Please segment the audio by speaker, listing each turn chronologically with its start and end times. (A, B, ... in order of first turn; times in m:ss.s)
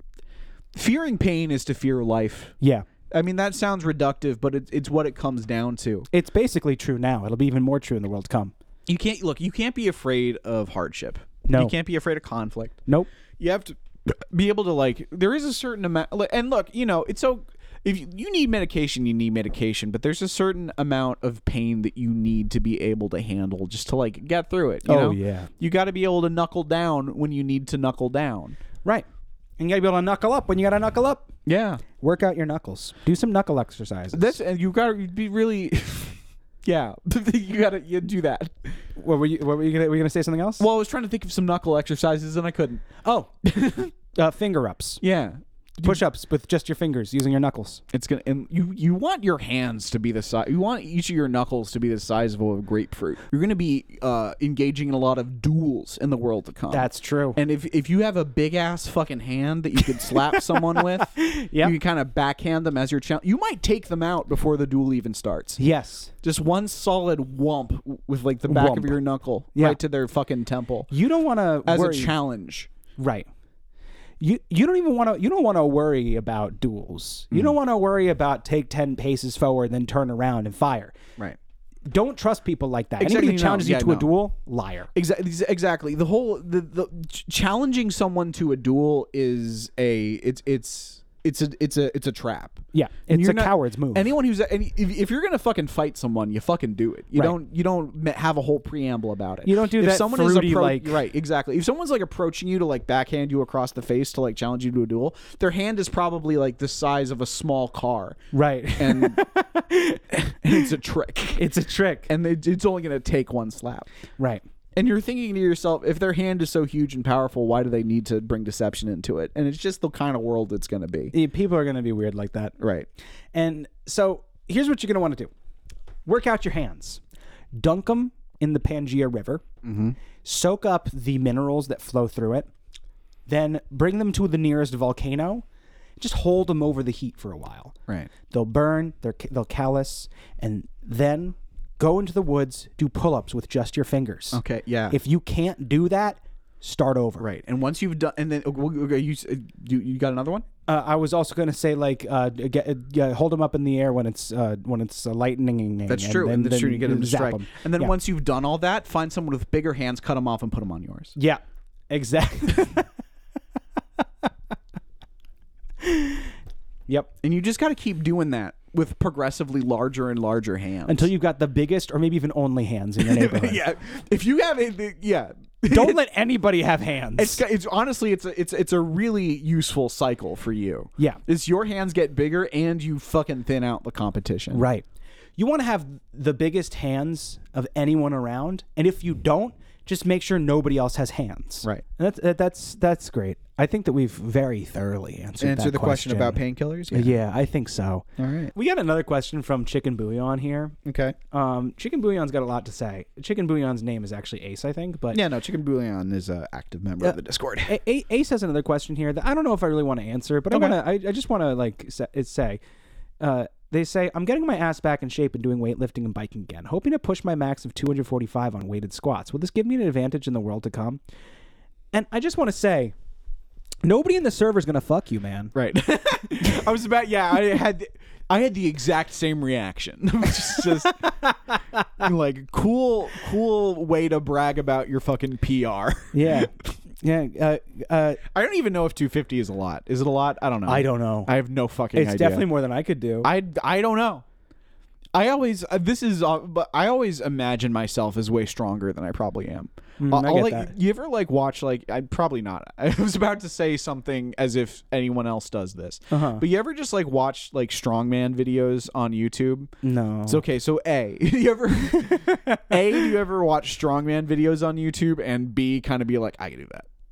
0:00.8-0:02.6 A
0:02.6-0:02.9 B
0:03.1-0:06.1 A
0:06.1-0:08.5 B
0:08.9-0:12.8 A
0:11.4-0:11.7 B
0:13.4-0:28.6 A
0:24.8-0:25.5 B
0:29.6-0:31.3 B
0:31.5-0:31.8 A
0:32.0-0:34.4 B
0:34.1-0:38.8 A
0:39.0-0:40.7 B
0:40.6-0:42.9 A
0:43.0-0:43.3 B
0:43.4-0:43.9 A
0:44.1-0:45.0 B
0:45.0-0:46.0 A
0:45.8-0:47.8 B
0:47.9-1:05.6 A
0:56.7-0:57.4 B
1:00.6-1:01.8 B
1:05.6-1:06.1 B
1:06.2-1:10.9 A
1:08.5-1:09.0 B
1:09.5-1:09.8 B
1:10.9-1:12.1 B
1:11.7-1:12.7 A
1:13.0-1:13.3 B
1:14.2-1:21.0 B
1:21.9-1:24.9 B
1:23.0-1:24.1 A
1:25.0-1:48.2 A
1:32.7-1:34.1 B
1:39.5-1:41.0 B
1:48.3-1:50.6 B
1:48.8-1:49.2 A
1:50.1-1:51.5 A
1:51.4-1:52.1 B
1:52.1-1:53.9 A
1:54.2-1:54.4 B
1:54.8-2:01.1 A
2:01.1-2:02.6 B
2:02.6-2:02.9 A
2:03.3-2:05.3 B
2:06.1-2:07.0 B
2:07.6-2:09.4 B
2:09.6-2:10.0 A
2:10.2-2:12.5 B
2:13.3-2:15.4 B
2:16.0-2:17.8 B
2:18.3-2:27.3 B
2:24.3-2:25.0 A
2:27.2-2:30.5 A
2:30.7-2:37.9 B
2:35.9-2:41.1 A
2:41.2-2:42.9 B
2:45.8-2:46.3 B
2:47.2-2:51.1 A
2:50.9-2:53.6 B
2:53.0-2:56.0 A
2:55.7-2:57.4 B
2:57.2-3:04.6 A
3:04.5-3:04.9 B
3:05.4-3:20.8 B
3:15.4-3:17.2 A
3:18.2-3:18.5 A
3:20.8-3:21.2 A
3:21.3-3:25.2 B
3:25.1-3:27.8 A
3:27.0-3:32.6 B
3:30.5-3:30.8 A
3:33.2-3:41.0 B
3:41.9-3:43.0 B
3:43.8-3:45.5 B
3:45.6-3:51.2 A
3:51.2-3:51.9 B
3:52.0-3:56.7 A
3:56.1-3:58.2 B
3:58.3-4:02.5 A
4:00.7-4:01.3 B
4:01.9-4:03.3 B
4:03.2-4:04.2 A
4:05.1-4:19.7 A
4:10.0-4:10.7 B
4:16.1-4:16.4 B
4:19.8-4:20.4 B
4:20.3-4:26.9 A
4:22.0-4:22.7 B